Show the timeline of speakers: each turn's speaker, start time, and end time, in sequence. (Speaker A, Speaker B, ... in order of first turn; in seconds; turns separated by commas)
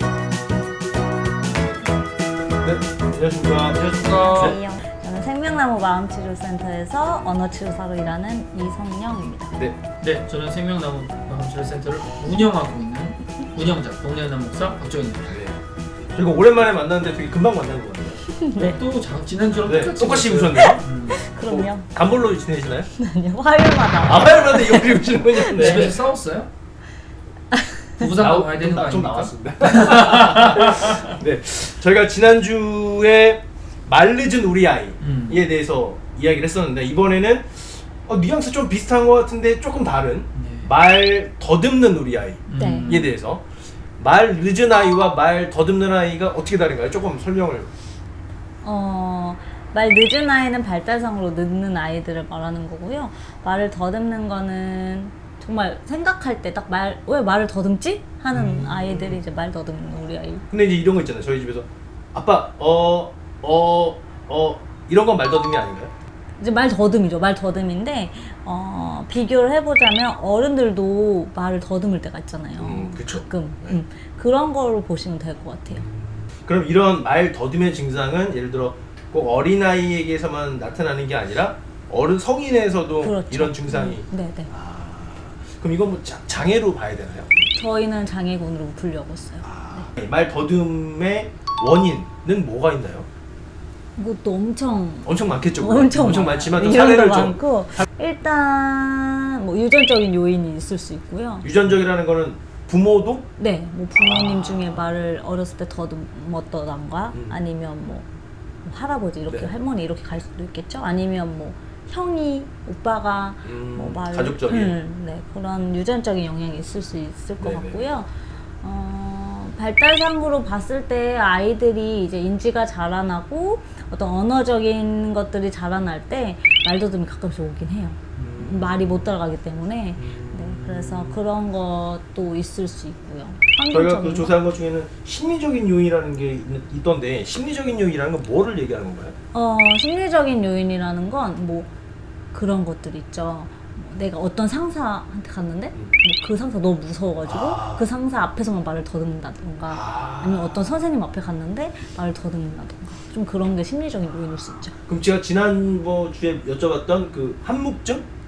Speaker A: 2.6-4.6, Speaker B: 3.7-4.6, Speaker C: 3.9-9.6, Speaker B: 10.0-15.5, Speaker A: 15.3-15.6, Speaker A: 16.1-18.3, Speaker C: 18.4-18.8, Speaker B: 18.6-21.2, Speaker A: 19.6-20.8, Speaker C: 21.1-21.9, Speaker A: 21.4-22.9, Speaker C: 23.0-25.9, Speaker A: 24.0-26.0, Speaker B: 25.5-26.5, Speaker C: 27.5-28.0, Speaker B: 28.0-31.1, Speaker A: 28.2-47.7, Speaker B: 35.0-35.4, Speaker B: 40.4-40.7, Speaker B: 42.5-43.1, Speaker C: 42.6-43.1, Speaker C: 48.6-60.5, Speaker A: 58.3-59.2, Speaker A: 60.5-65.9, Speaker C: 66.4-75.9, Speaker A: 72.6-73.8, Speaker A: 75.7-87.3, Speaker C: 83.0-84.5, Speaker C: 87.5-89.9, Speaker A: 89.4-93.1, Speaker C: 94.0-101.5, Speaker A: 95.0-97.9, Speaker A: 101.4-103.3, Speaker C: 103.4-108.1, Speaker A: 104.0-104.9, Speaker A: 107.1-107.4, Speaker C: 108.7-134.3, Speaker A: 113.5-114.8, Speaker A: 117.4-117.9, Speaker A: 128.2-129.1, Speaker A: 130.0-131.2, Speaker A: 133.7-139.2, Speaker C: 139.3-141.7, Speaker C: 142.3-154.8, Speaker A: 147.2-147.9, Speaker A: 149.7-150.7, Speaker A: 154.9-158.1